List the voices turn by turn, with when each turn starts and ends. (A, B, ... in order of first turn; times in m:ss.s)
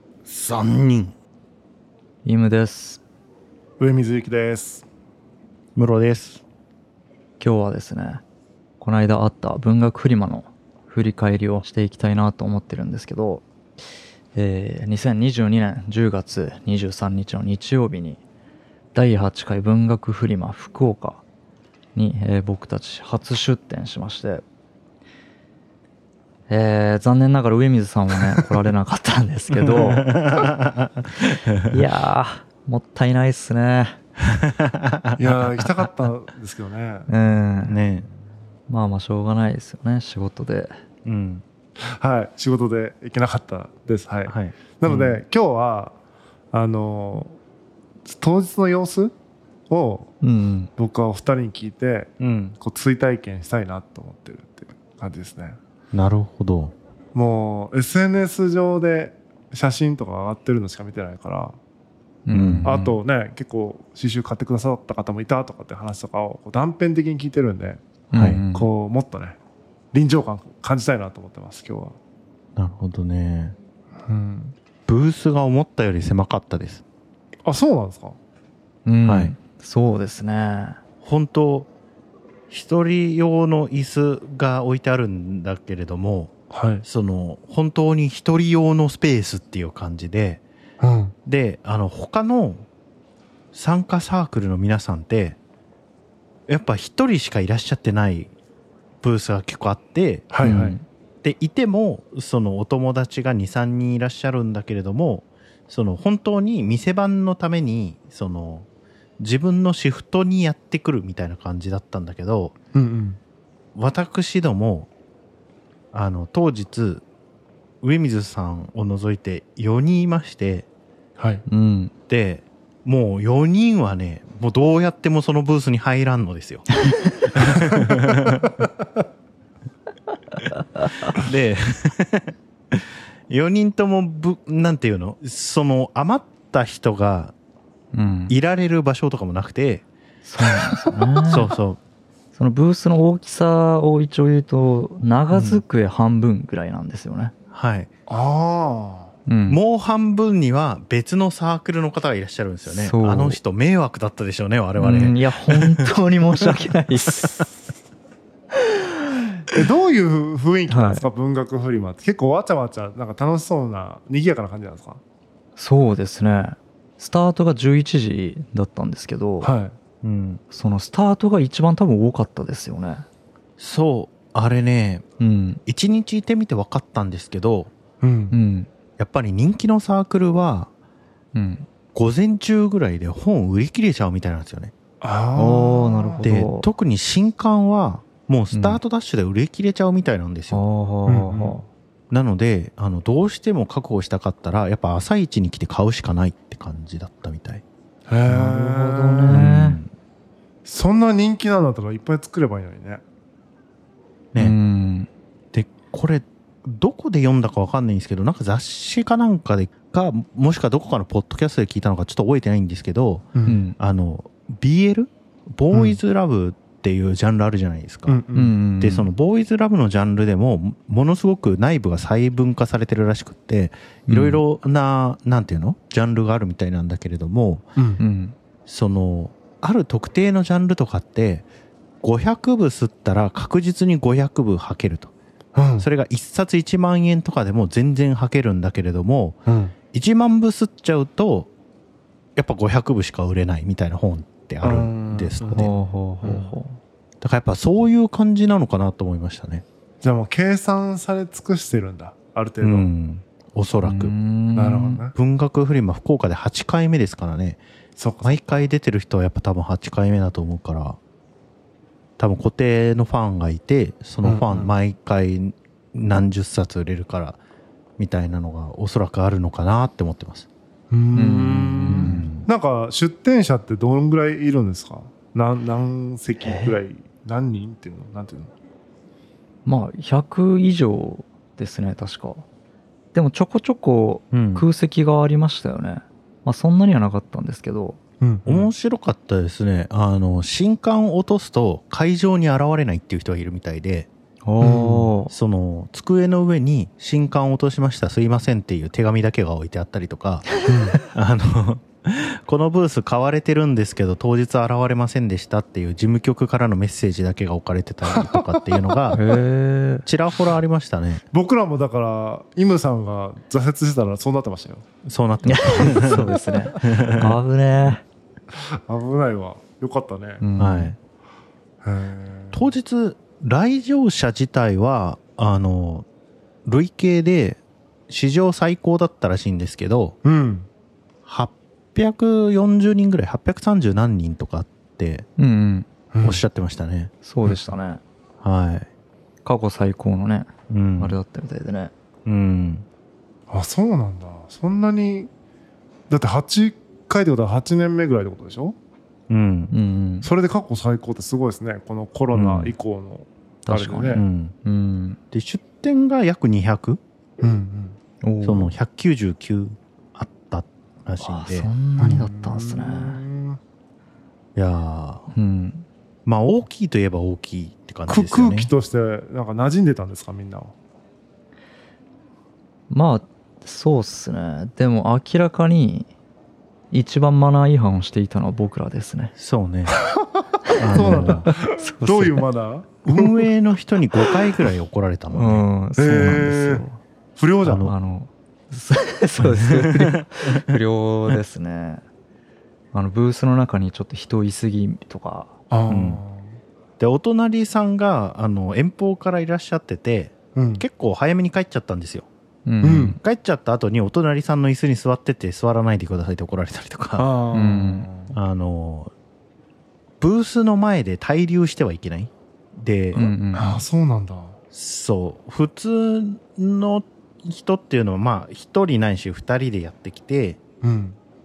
0:00.3-0:01.1 A
0:02.2-0:03.0 B
0:03.8-0:04.8 C
0:05.8-0:06.4 A
0:07.4-0:08.2 B
0:08.8-0:13.4 B
0:14.4-0:18.2 B
0:18.9-0:21.2 B
0:22.0-0:24.4 B
0:26.5-0:30.2 B
0:29.6-0:31.8 A
0:31.7-0:34.0 B
0:34.2-0:35.7 A
0:35.2-0:37.1 C
0:37.1-0:37.8 B
0:37.7-0:38.1 A
0:38.7-0:40.7 B
0:41.0-0:41.4 A
0:41.8-0:46.0 C
0:44.3-0:45.1 A
0:46.5-0:47.4 C
0:48.0-0:49.1 C
0:49.7-0:50.1 C
0:50.2-0:50.7 B
0:50.8-0:55.6 C
0:52.2-0:52.6 A
0:55.9-0:56.7 A
0:57.1-1:01.6 C
1:02.3-1:02.8 B
1:02.3-1:02.9 A
1:02.6-1:07.8 C
1:08.1-1:08.7 B
1:08.1-1:08.4 A
1:08.5-1:09.4 C
1:09.9-1:12.0 C
1:12.6-1:13.6 A
1:14.1-1:14.6 C
1:14.9-1:16.8 A
1:17.4-1:18.2 C
1:18.9-1:20.8 B
1:19.1-1:19.4 A
1:21.0-1:21.7 A
1:22.5-1:30.4 A
1:26.5-1:26.8 C
1:30.8-1:31.1 C
1:31.3-1:32.7 A
1:33.5-1:35.4 A
1:36.5-1:38.3 A
1:39.0-1:48.7 A
1:40.3-1:40.8 C
1:40.4-1:40.8 B
1:49.2-1:52.6 A
1:52.7-1:53.2 C
1:53.8-1:54.9 A
1:55.9-1:57.0 A
1:57.8-2:00.7 A
2:01.2-2:01.4 C
2:01.5-2:01.9 B
2:02.1-2:06.7 A
2:07.3-2:08.6 A
2:11.1-2:17.4 A
2:17.9-2:18.4 B
2:18.3-2:19.9 A
2:20.2-2:21.5 B
2:21.2-2:21.8 A
2:22.4-2:27.3 B
2:25.3-2:25.6 A
2:27.5-2:27.9 A
2:28.1-2:29.1 C
2:29.3-2:29.6 B
2:29.5-2:35.9 A
2:32.7-2:33.4 B
2:34.8-2:37.5 B
2:38.6-2:39.4 B
2:39.5-2:45.0 C
2:40.7-2:41.0 B
2:45.6-2:49.5 B
2:49.4-2:49.8 C
2:50.0-2:50.4 A
2:50.5-2:53.1 B
2:53.6-2:55.0 A
2:55.2-2:55.6 B
2:55.7-2:57.7 A
2:58.0-2:58.4 C
2:58.3-2:58.7 B
2:59.0-3:00.7 A
3:01.3-3:01.7 B
3:01.9-3:04.7 A
3:05.0-3:06.3 C
3:05.4-3:06.7 B
3:06.2-3:10.6 A
3:08.5-3:08.8 B
3:10.5-3:11.6 B
3:11.1-3:11.6 C
3:12.1-3:17.6 A
3:18.1-3:19.4 C
3:18.3-3:19.8 B
3:19.3-3:19.9 A
3:20.6-3:23.0 C
3:24.4-3:25.1 B
3:25.5-3:33.3 A
3:33.3-3:33.6 C
3:33.5-3:33.8 B
3:33.8-3:38.2 A
3:35.7-3:36.0 C
3:38.1-3:38.6 C
3:38.4-3:39.1 B
3:38.8-3:47.7 A
3:44.1-3:44.4 B
3:48.0-3:48.4 B
3:48.7-3:51.5 A
3:52.0-3:55.1 A
3:55.6-3:55.9 C
3:55.8-3:59.4 A
3:59.5-3:59.7 C
3:59.9-4:01.5 A
4:02.4-4:05.7 A
4:04.6-4:05.7 C
4:05.5-4:06.8 B
4:06.2-4:06.5 C
4:07.2-4:09.6 A
4:10.0-4:12.9 C
4:12.6-4:14.1 A
4:13.8-4:15.0 B
4:14.6-4:15.2 C
4:15.2-4:17.6 A
4:18.0-4:18.4 C
4:18.2-4:21.0 A
4:22.2-4:27.4 A
4:24.2-4:24.7 C
4:28.0-4:30.5 A
4:30.9-4:38.5 C
4:31.2-4:32.3 B
4:31.9-4:32.5 A
4:36.4-4:36.8 B
4:39.7-4:42.4 B
4:43.1-4:48.0 B
4:44.3-4:44.7 A
4:48.2-4:48.7 C
4:48.5-4:54.1 A
4:54.4-4:55.3 B
4:54.6-4:55.1 C
4:55.3-5:09.2 A
5:00.7-5:01.0 C
5:08.1-5:09.0 C
5:09.1-5:10.1 B
5:10.0-5:11.2 A
5:11.3-5:14.8 C
5:15.0-5:17.4 A
5:15.5-5:18.0 B
5:18.5-5:20.4 C
5:20.4-5:21.0 B
5:20.6-5:21.0 A
5:21.8-5:22.7 C
5:22.5-5:26.1 A
5:26.6-5:30.2 A
5:30.2-5:30.7 C
5:31.2-5:35.3 A
5:35.4-5:35.9 B
5:36.1-5:36.4 C
5:36.2-5:37.1 A
5:37.2-5:38.0 B
5:38.4-5:38.9 A
5:39.4-5:41.9 B
5:40.7-5:41.2 A
5:42.3-5:42.9 A
5:43.5-5:45.3 C
5:46.1-5:48.8 C
5:49.3-5:49.7 A
5:49.7-5:50.3 B
5:50.2-5:54.2 C
5:52.3-5:52.8 A
5:53.7-5:55.2 B
5:54.1-5:54.6 A
5:55.3-5:57.0 A
5:57.4-5:58.0 C
5:58.2-5:58.7 B
5:58.4-6:01.7 A
6:01.2-6:03.2 B
6:02.0-6:03.6 C
6:04.6-6:05.3 A
6:05.3-6:05.9 B
6:06.3-6:08.7 A
6:08.1-6:10.7 C
6:12.9-6:16.1 B
6:16.9-6:19.3 B
6:19.4-6:20.0 A
6:20.0-6:23.5 C
6:20.8-6:21.5 A
6:20.9-6:22.4 B
6:23.1-6:25.6 A
6:25.3-6:27.0 B
6:26.0-6:26.8 C
6:27.4-6:27.9 C
6:27.6-6:27.9 A
6:27.8-6:32.0 B
6:29.4-6:30.8 A
6:32.9-6:35.5 B
6:35.7-6:36.6 C
6:35.9-6:36.2 A
6:37.0-6:42.3 A
6:40.6-6:40.8 C
6:42.7-6:43.2 B
6:42.8-6:43.2 C
6:43.2-6:47.3 A
6:47.2-6:48.4 C
6:47.5-6:48.1 B
6:48.3-6:49.1 A
6:50.2-6:53.3 A
6:53.1-6:53.8 B
6:53.5-6:54.6 C
6:54.7-7:00.6 A
7:00.8-7:01.2 C